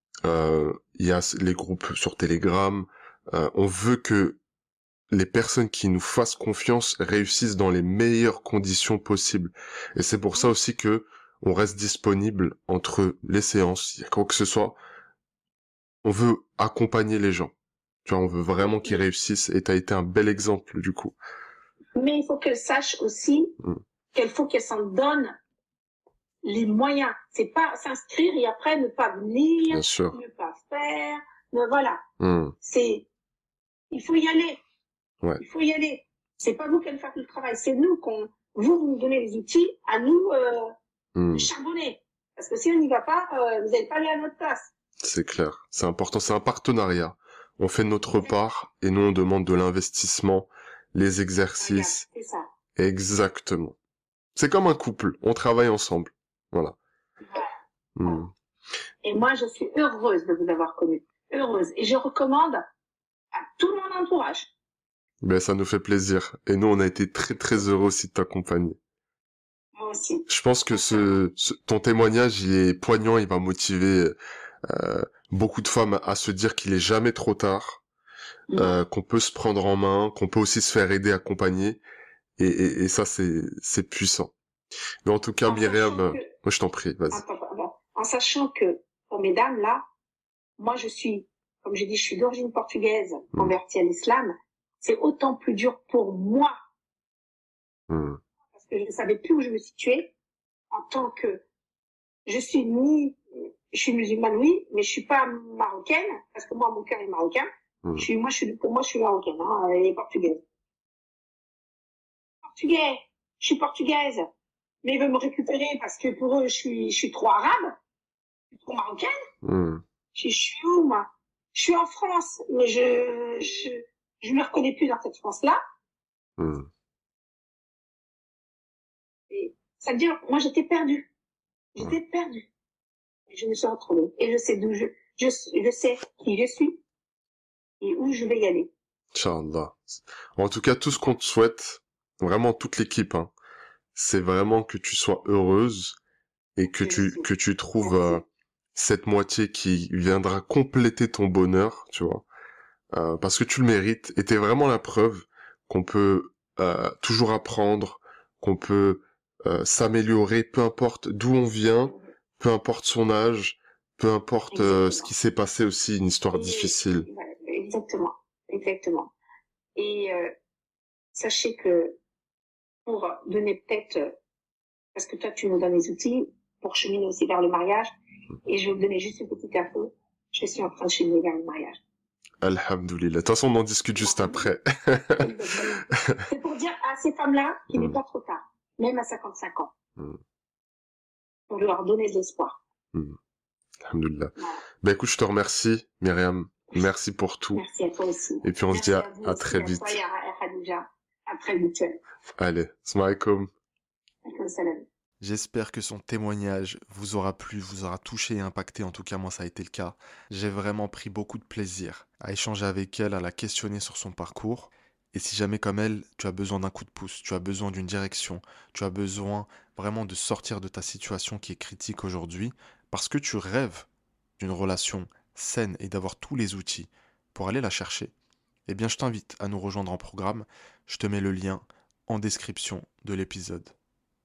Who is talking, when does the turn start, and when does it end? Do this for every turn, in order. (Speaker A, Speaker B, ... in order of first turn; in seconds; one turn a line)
Speaker A: 0.2-4.4
Speaker A: 5.1-14.7
Speaker A: 16.0-21.1
Speaker B: 21.9-23.6
Speaker B: 24.1-25.4
Speaker B: 26.4-32.0
Speaker A: 29.7-30.2
Speaker A: 32.2-32.5
Speaker B: 32.6-33.0
Speaker B: 33.9-34.6
Speaker B: 35.4-40.7
Speaker A: 41.1-41.5
Speaker B: 41.3-44.7
Speaker A: 45.0-52.0
Speaker B: 51.6-52.5
Speaker A: 52.8-53.8
Speaker A: 54.3-56.8
Speaker A: 58.0-58.3
Speaker B: 59.0-62.6
Speaker B: 63.3-64.5
Speaker A: 65.2-68.8
Speaker B: 69.8-71.1
Speaker A: 70.3-77.8
Speaker B: 78.5-78.8
Speaker A: 78.5-81.8
Speaker A: 82.4-84.3
Speaker A: 85.0-87.2
Speaker B: 85.4-86.3
Speaker B: 87.1-89.8
Speaker B: 90.6-96.5
Speaker A: 97.9-98.2
Speaker B: 98.5-100.1
Speaker B: 100.7-101.4
Speaker B: 102.2-103.2
Speaker B: 103.7-110.4
Speaker B: 112.4-114.3
Speaker B: 114.8-117.8
Speaker B: 118.5-119.1
Speaker A: 119.4-119.8
Speaker B: 120.1-125.6
Speaker A: 126.4-126.7
Speaker B: 129.3-131.1
Speaker B: 131.7-132.5
Speaker B: 133.3-136.8
Speaker B: 137.8-138.7
Speaker A: 139.1-143.3
Speaker A: 143.9-146.0
Speaker A: 146.6-152.2
Speaker B: 146.8-147.3
Speaker B: 147.8-148.2
Speaker A: 152.9-167.1
Speaker B: 164.5-165.1
Speaker B: 166.3-169.1
Speaker B: 169.8-170.3
Speaker B: 171.1-172.0
Speaker B: 172.8-174.1
Speaker B: 174.9-177.9
Speaker B: 178.4-181.8
Speaker A: 182.4-185.3
Speaker B: 184.0-184.5
Speaker B: 185.2-189.7
Speaker A: 185.9-186.2
Speaker A: 187.7-188.0
Speaker B: 191.5-192.6
Speaker A: 193.8-197.6
Speaker B: 194.4-194.6
Speaker B: 197.5-202.0
Speaker A: 198.4-200.0
Speaker A: 202.4-203.5
Speaker B: 204.2-204.8
Speaker C: 205.2-223.9
Speaker C: 224.4-228.1
Speaker C: 228.7-233.7